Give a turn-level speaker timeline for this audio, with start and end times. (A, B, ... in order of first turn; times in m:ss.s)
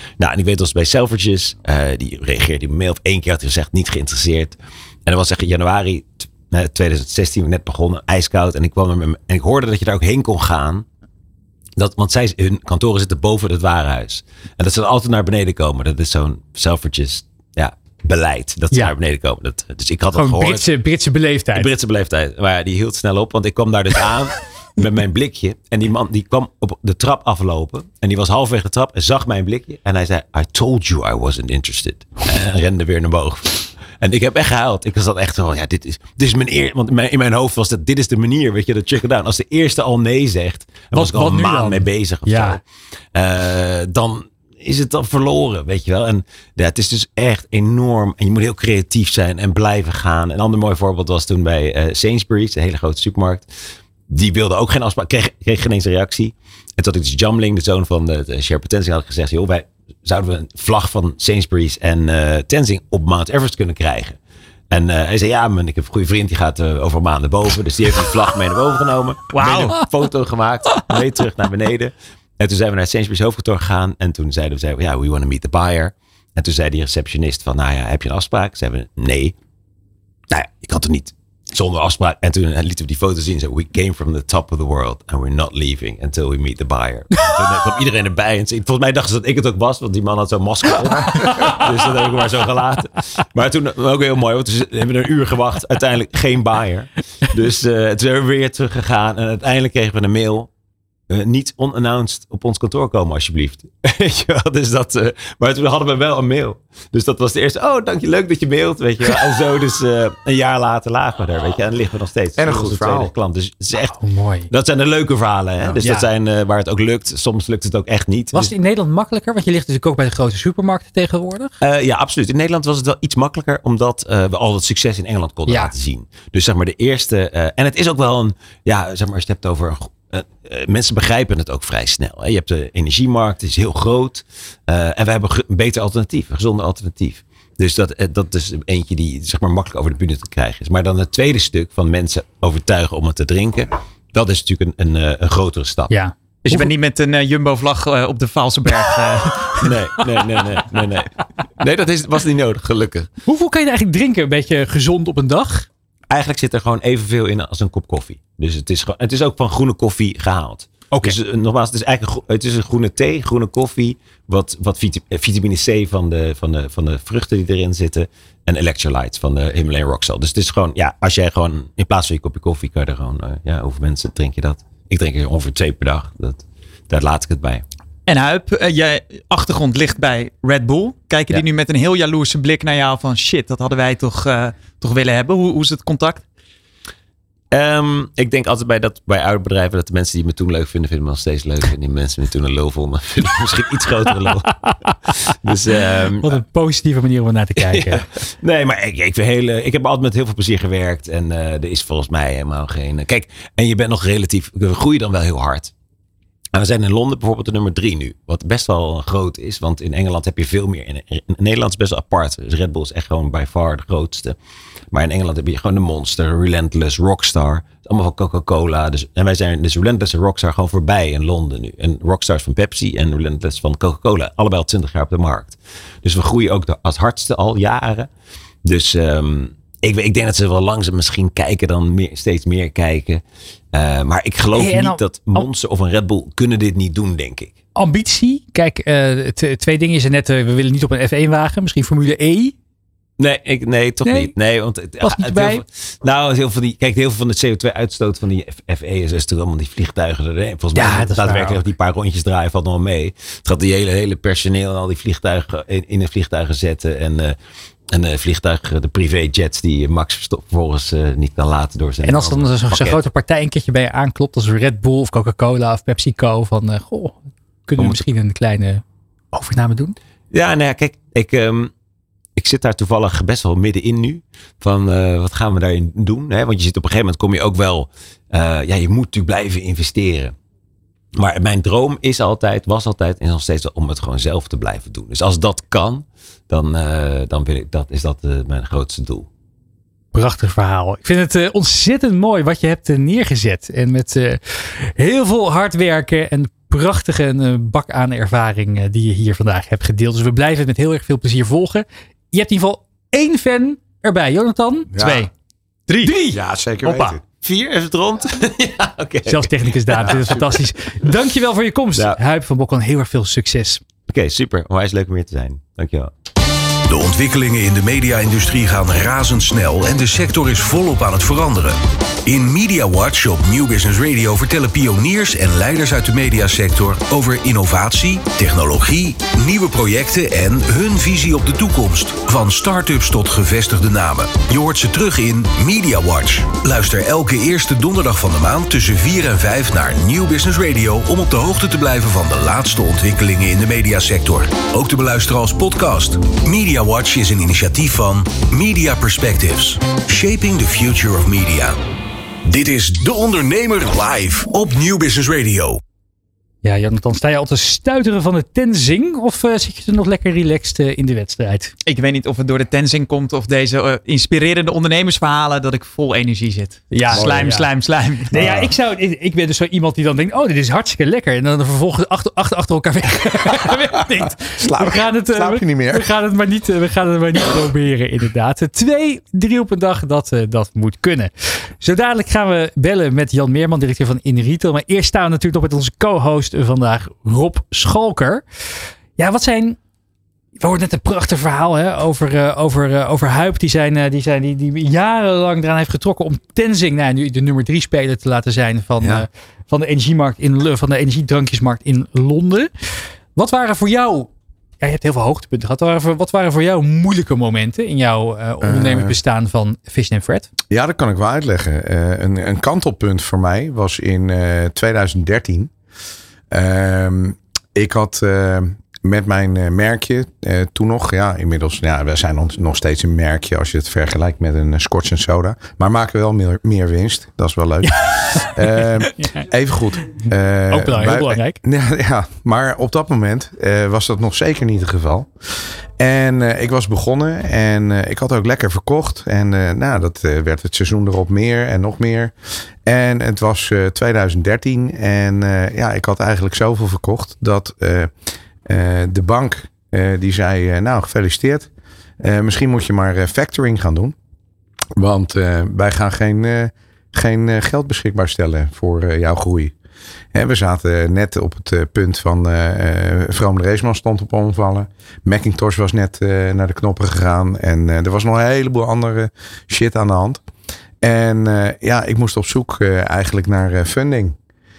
0:00.2-0:10.8 A
0:11.8-0:20.6 A
0:20.1-0:21.7 B
0:21.5-0:42.6 A
0:40.9-0:42.6 B
0:43.1-0:53.5 A
0:54.1-1:04.2 A
1:04.7-1:19.4 A
1:09.3-1:09.8 C
1:20.3-1:40.5 A
1:31.1-1:31.6 B
1:41.1-1:54.0 A
1:52.4-1:53.1 D
1:54.0-1:54.5 B
1:54.5-1:58.5 A
1:55.8-1:56.1 B
1:58.3-2:01.5 B
2:01.6-2:25.9 A
2:05.5-2:05.7 B
2:25.9-2:26.7 B
2:26.4-2:29.7 C
2:29.6-2:33.1 A
2:33.2-2:35.7 B
2:36.1-2:57.6 A
2:40.9-2:41.2 B
2:58.1-3:06.2 C
3:07.5-3:14.7 A
3:15.2-3:16.4 A
3:16.2-3:18.0 B
3:17.6-3:25.7 A
3:26.5-3:34.4 A
3:34.9-3:48.1 A
3:48.6-3:53.2 A
3:53.7-3:57.5 A
3:54.5-3:55.5 B
3:57.8-4:02.5 B
4:03.2-4:17.4 A
4:04.0-4:04.3 B
4:05.0-4:05.6 B
4:10.7-4:11.6 B
4:17.9-4:23.0 A
4:22.0-4:29.9 B
4:30.3-4:31.7 A
4:32.4-4:40.3 A
4:41.2-4:49.3 A
4:50.1-5:04.9 B
5:04.9-5:05.3 D
5:05.0-5:05.3 C
5:05.9-5:06.1 C
5:06.0-5:06.4 B
5:06.3-5:07.2 D
5:06.8-5:07.2 C
5:07.4-5:10.5 A
5:09.2-5:13.8 B
5:14.1-5:16.1 A
5:16.9-5:51.8 E
5:52.4-5:55.8 E
5:56.6-6:01.7 B
6:01.8-6:08.4 C
6:06.9-6:07.7 B
6:07.1-6:07.6 D
6:08.3-6:28.4 B
6:08.3-6:08.7 D
6:14.5-6:16.1 D
6:29.2-6:29.8 B
6:30.6-6:42.7 B
6:39.0-6:39.2 D
6:43.4-6:44.3 B
6:44.8-6:50.5 B
6:48.6-6:49.2 D
6:50.7-6:55.7 D
6:56.5-7:22.3 D
7:08.1-7:08.5 B
7:09.1-7:09.4 B
7:10.7-7:11.6 B
7:22.8-7:28.1 D
7:28.6-7:31.7 D
7:32.2-7:34.1 D
7:35.0-7:39.7 D
7:40.3-7:50.4 D
7:51.0-7:54.4 D